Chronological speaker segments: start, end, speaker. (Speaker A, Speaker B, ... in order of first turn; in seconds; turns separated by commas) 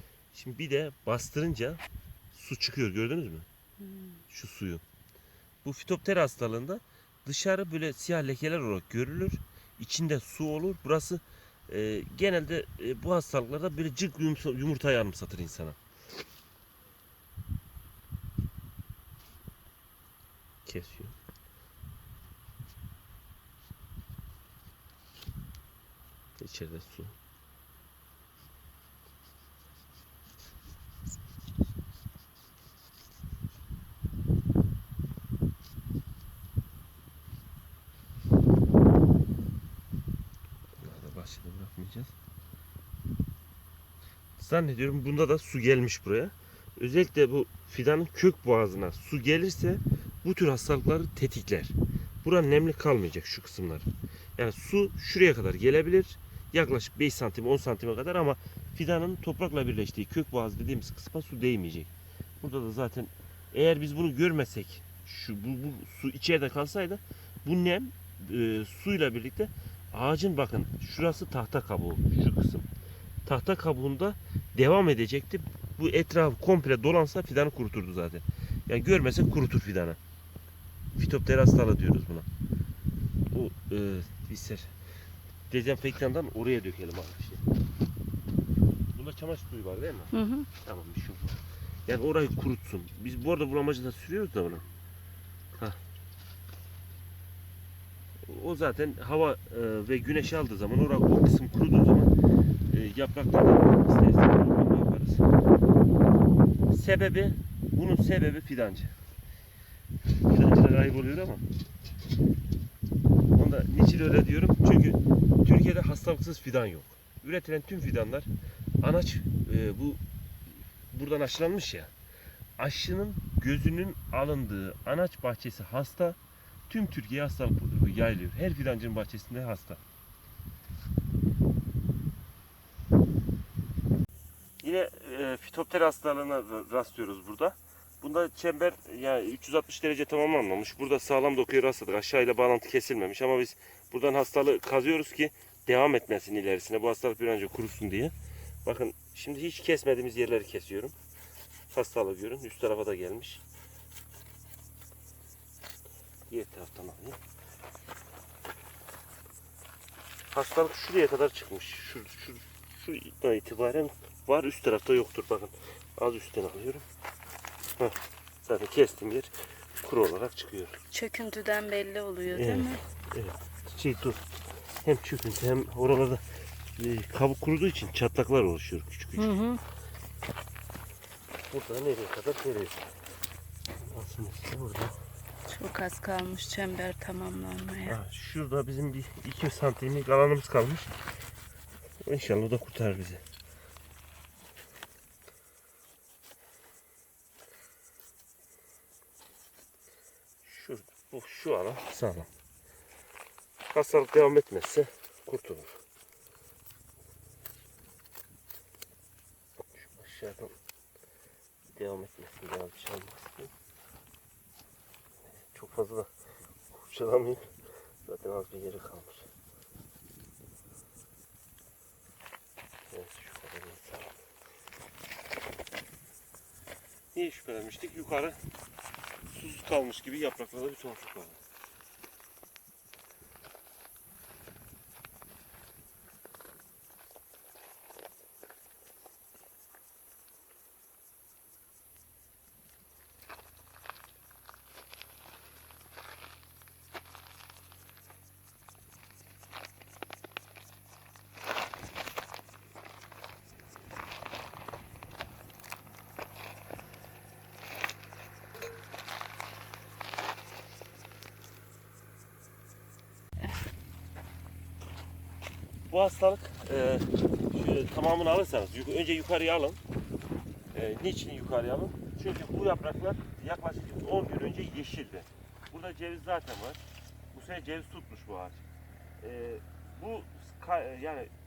Speaker A: 0.3-1.8, Speaker A: 2.3-3.5, Speaker B: 3.8-4.2, Speaker A: 4.3-4.8, Speaker A: 5.6-15.8, Speaker A: 20.6-21.2, Speaker A: 26.4-27.1, Speaker A: 40.8-42.1, Speaker A: 44.4-72.7, Speaker A: 73.2-80.0, Speaker A: 81.0-82.3, Speaker A: 83.3-84.7, Speaker A: 85.5-87.4, Speaker A: 88.9-94.7, Speaker B: 90.1-90.5, Speaker A: 98.3-102.1, Speaker A: 102.7-105.3, Speaker A: 106.7-108.9, Speaker A: 110.3-111.4, Speaker A: 113.3-118.3, Speaker A: 118.8-120.0, Speaker A: 120.9-121.9, Speaker A: 122.6-126.2, Speaker A: 126.7-129.8, Speaker A: 134.6-148.1, Speaker A: 148.7-151.0, Speaker A: 151.7-153.4, Speaker A: 156.3-157.2, Speaker A: 160.3-166.9, Speaker A: 167.8-170.8, Speaker B: 170.9-172.8, Speaker A: 172.3-174.2, Speaker A: 174.8-176.2, Speaker A: 176.8-179.4, Speaker B: 179.2-179.6, Speaker A: 181.5-182.8, Speaker A: 183.8-185.0, Speaker B: 185.5-188.0, Speaker A: 187.8-190.9, Speaker A: 192.1-193.2, Speaker A: 200.4-202.3, Speaker A: 203.7-205.8, Speaker A: 209.6-210.5, Speaker A: 211.7-213.5, Speaker A: 215.4-216.1, Speaker A: 216.7-217.4, Speaker A: 218.1-219.3, Speaker A: 222.9-224.2, Speaker A: 227.1-228.4, Speaker A: 229.3-231.4, Speaker A: 265.9-269.8, Speaker A: 270.7-278.7, Speaker A: 279.2-281.3